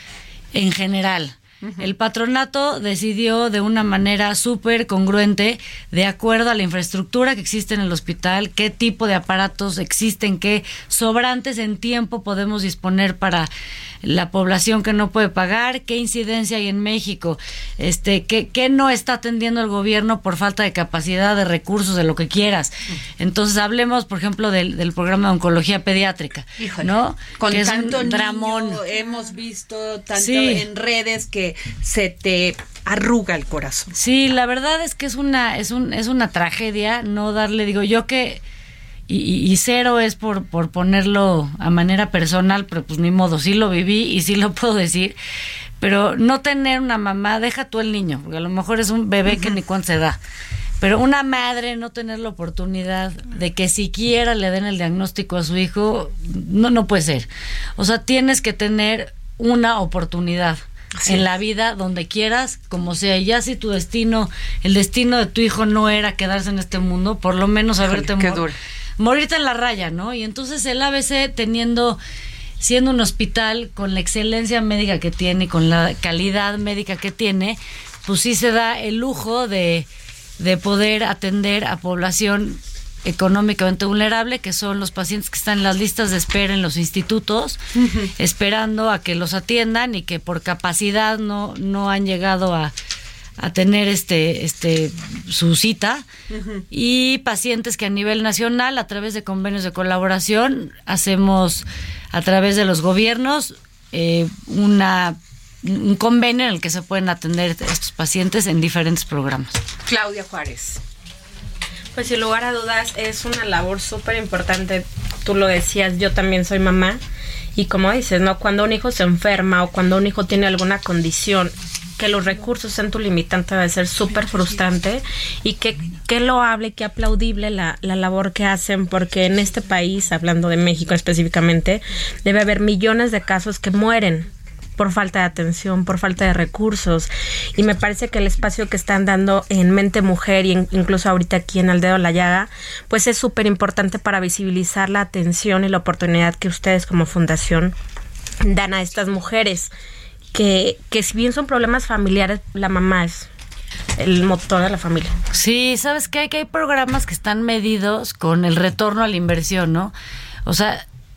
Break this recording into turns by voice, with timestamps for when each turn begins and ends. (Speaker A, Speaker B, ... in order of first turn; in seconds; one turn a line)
Speaker A: 0.5-13.5
Speaker B: 1.6-1.9
Speaker A: 14.0-28.8
Speaker B: 26.6-33.9
Speaker A: 30.1-30.7
Speaker A: 33.9-38.4
Speaker A: 39.1-45.2
Speaker A: 45.8-50.2
Speaker A: 50.8-72.0
Speaker B: 67.8-68.5
Speaker A: 72.6-79.9
Speaker A: 80.4-87.6
Speaker B: 87.8-88.1
Speaker A: 88.2-92.7
Speaker A: 93.4-96.1
Speaker B: 96.3-96.6
Speaker A: 96.7-109.6
Speaker B: 109.9-110.8
Speaker C: 111.9-117.0
Speaker C: 117.5-147.8
Speaker C: 148.4-149.7
Speaker C: 150.3-153.3
Speaker C: 154.0-155.1
Speaker A: 155.3-159.9
Speaker A: 160.4-160.8